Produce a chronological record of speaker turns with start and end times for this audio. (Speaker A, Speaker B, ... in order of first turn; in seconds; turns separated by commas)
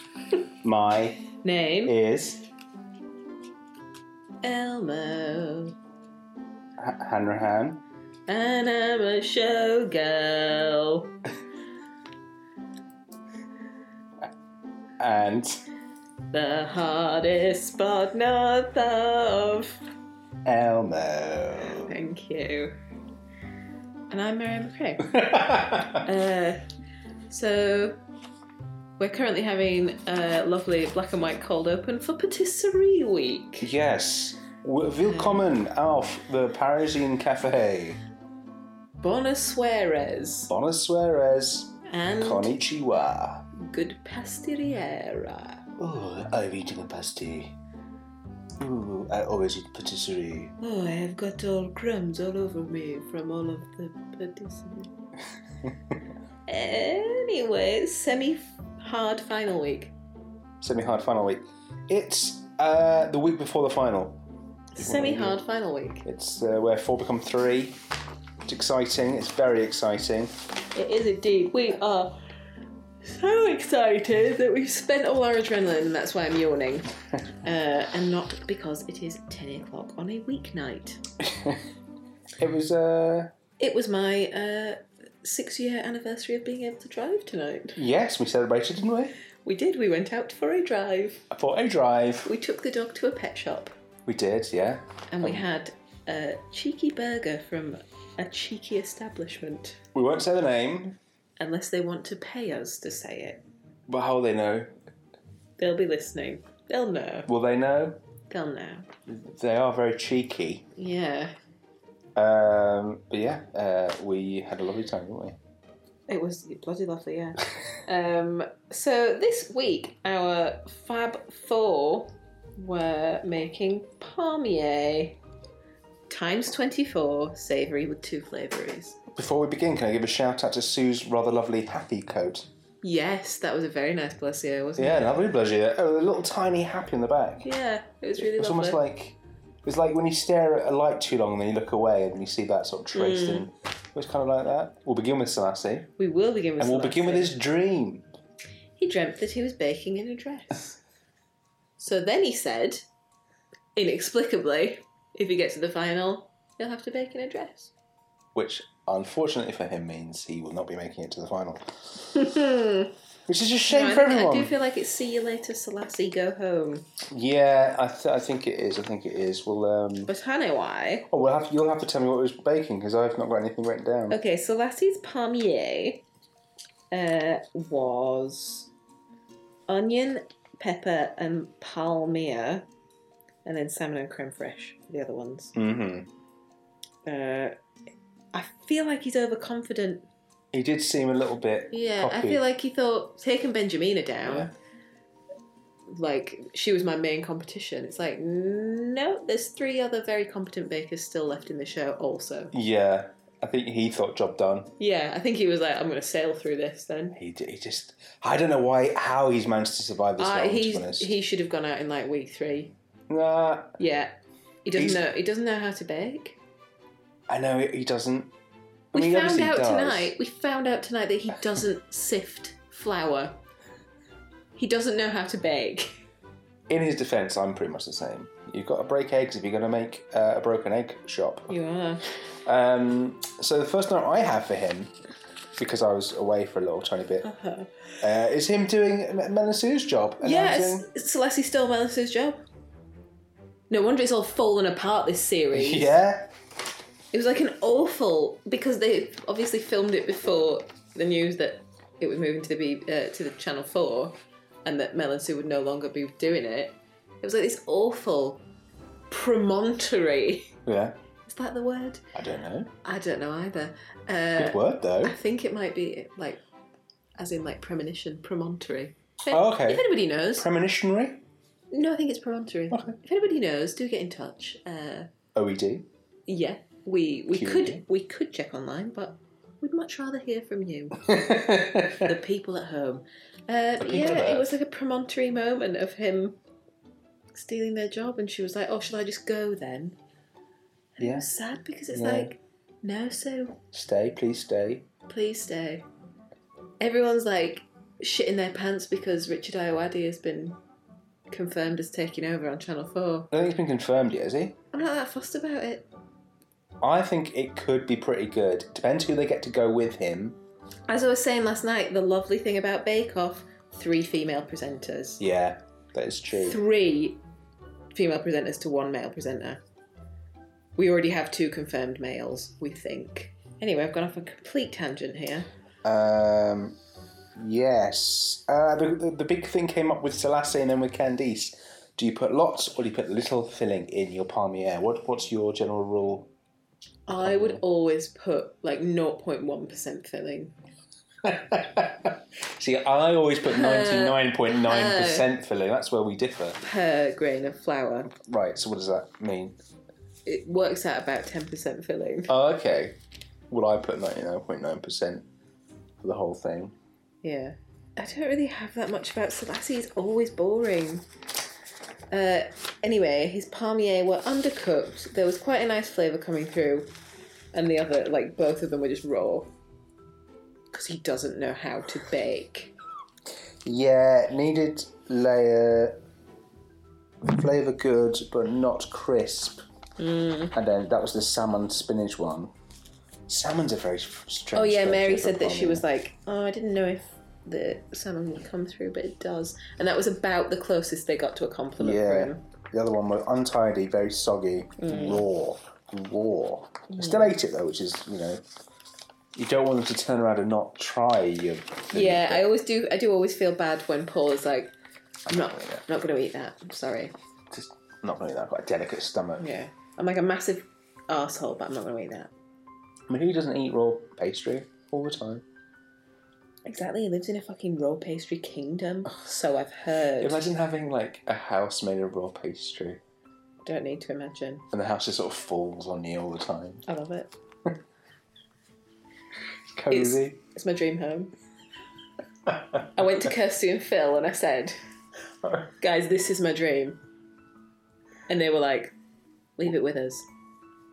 Speaker A: 0.6-1.2, Speaker B: 1.4-1.9, Speaker A: 1.9-2.4, Speaker B: 4.4-5.8, Speaker A: 6.8-7.8, Speaker B: 8.3-11.1, Speaker A: 15.0-15.6, Speaker B: 16.3-19.8, Speaker A: 20.4-21.9, Speaker B: 21.7-22.8, Speaker B: 24.1-25.3, Speaker A: 25.1-26.0, Speaker B: 26.0-26.6, Speaker B: 27.3-28.0, Speaker B: 29.0-33.7, Speaker A: 33.6-38.0, Speaker B: 35.0-35.4, Speaker B: 39.0-40.5, Speaker A: 40.5-43.5, Speaker B: 41.9-42.6, Speaker B: 43.5-45.6, Speaker A: 45.8-47.5, Speaker A: 48.6-50.5, Speaker B: 50.6-54.9, Speaker A: 55.6-55.9, Speaker B: 56.5-59.9, Speaker A: 60.6-64.2, Speaker B: 64.7-66.0, Speaker A: 64.8-65.4, Speaker A: 66.0-67.8, Speaker A: 68.5-70.3, Speaker B: 70.7-72.2, Speaker B: 73.0-81.0, Speaker A: 81.2-81.6, Speaker A: 82.4-83.3, Speaker B: 83.6-87.8, Speaker A: 87.8-89.1, Speaker B: 89.4-91.3, Speaker A: 91.3-92.3, Speaker B: 92.2-93.7, Speaker A: 94.1-95.5, Speaker B: 95.1-99.8, Speaker A: 99.9-101.0, Speaker B: 101.4-103.4, Speaker A: 103.9-104.7, Speaker B: 105.6-107.3, Speaker A: 107.3-108.0, Speaker B: 108.3-108.9, Speaker A: 109.1-110.7, Speaker B: 110.8-111.3, Speaker A: 112.2-115.4, Speaker B: 116.1-125.2, Speaker B: 126.1-129.0, Speaker A: 129.1-132.5, Speaker B: 132.8-135.3, Speaker A: 134.8-137.5, Speaker B: 137.4-138.8, Speaker A: 138.2-145.9, Speaker B: 142.9-143.4, Speaker B: 146.0-147.3, Speaker A: 146.6-148.1, Speaker B: 148.8-150.8, Speaker B: 151.8-152.8, Speaker B: 153.8-157.7, Speaker A: 158.3-161.7, Speaker B: 162.1-162.9, Speaker A: 163.3-164.5, Speaker B: 163.7-166.9, Speaker A: 167.1-170.1, Speaker B: 170.1-171.1, Speaker A: 171.1-174.2, Speaker B: 174.1-176.0, Speaker B: 176.9-178.7, Speaker B: 179.7-182.7, Speaker B: 183.4-185.5, Speaker A: 185.5-186.1, Speaker B: 187.0-187.5, Speaker B: 188.3-190.1, Speaker A: 190.5-192.4, Speaker B: 191.7-194.5, Speaker A: 194.2-194.5, Speaker B: 195.9-202.5, Speaker A: 202.5-204.7, Speaker B: 204.8-207.2, Speaker A: 207.1-211.1, Speaker B: 210.2-212.7, Speaker A: 213.1-213.8, Speaker B: 213.8-216.4, Speaker A: 214.8-215.0, Speaker A: 217.3-218.3, Speaker A: 218.9-220.2, Speaker B: 218.9-223.4, Speaker B: 224.5-225.9, Speaker A: 226.7-231.5, Speaker B: 231.5-232.0, Speaker A: 232.4-234.9, Speaker A: 235.6-237.3, Speaker B: 237.2-237.9, Speaker A: 238.0-240.9, Speaker B: 240.2-242.4, Speaker B: 243.7-246.0, Speaker A: 245.5-246.3, Speaker B: 247.1-258.4, Speaker B: 259.1-260.6, Speaker A: 260.6-261.0, Speaker B: 261.2-262.1, Speaker A: 262.1-262.7, Speaker B: 262.8-266.4, Speaker A: 264.4-265.2, Speaker B: 267.2-270.5, Speaker A: 269.3-271.2, Speaker B: 271.7-275.1, Speaker A: 272.7-272.9, Speaker A: 275.4-275.9, Speaker B: 276.3-281.1, Speaker A: 277.3-277.8, Speaker A: 281.0-282.1, Speaker B: 281.9-286.4, Speaker A: 283.8-284.5, Speaker B: 287.3-290.0, Speaker B: 291.0-293.6, Speaker A: 291.0-291.3, Speaker A: 291.9-292.3, Speaker A: 293.7-294.9, Speaker B: 295.1-295.9, Speaker B: 296.8-300.6, Speaker B: 301.3-303.3, Speaker A: 303.3-304.6, Speaker B: 304.7-305.9, Speaker A: 306.8-310.4, Speaker B: 310.9-315.2, Speaker A: 315.2-316.6, Speaker B: 316.3-317.2, Speaker B: 317.9-319.6, Speaker B: 320.8-325.5, Speaker A: 325.8-326.8, Speaker A: 327.4-336.3, Speaker B: 337.1-340.5, Speaker A: 337.1-337.6, Speaker A: 341.2-346.6, Speaker B: 343.4-345.3, Speaker B: 346.6-348.1, Speaker A: 348.1-349.6, Speaker B: 350.2-352.3, Speaker A: 352.3-353.0, Speaker A: 353.5-355.2, Speaker A: 356.0-356.8, Speaker B: 357.2-361.1, Speaker B: 362.1-366.9, Speaker B: 367.5-369.5, Speaker B: 370.7-372.7, Speaker A: 373.6-376.0, Speaker A: 377.2-379.6, Speaker B: 380.0-380.6, Speaker A: 380.5-382.5, Speaker A: 383.3-385.9, Speaker B: 384.5-392.4, Speaker A: 391.8-398.4, Speaker B: 394.8-395.2, Speaker B: 396.9-397.3, Speaker A: 399.4-402.5, Speaker B: 401.9-404.7, Speaker B: 405.3-407.1, Speaker A: 405.3-405.8, Speaker A: 407.5-409.5, Speaker B: 409.4-412.3, Speaker A: 413.1-415.4, Speaker B: 416.6-420.5, Speaker A: 420.2-423.0, Speaker B: 423.6-424.6, Speaker A: 424.7-426.8, Speaker B: 426.9-427.3, Speaker A: 429.8-430.4, Speaker B: 429.9-431.3, Speaker B: 432.9-434.8, Speaker B: 435.8-437.0, Speaker B: 438.3-438.9, Speaker B: 439.6-440.3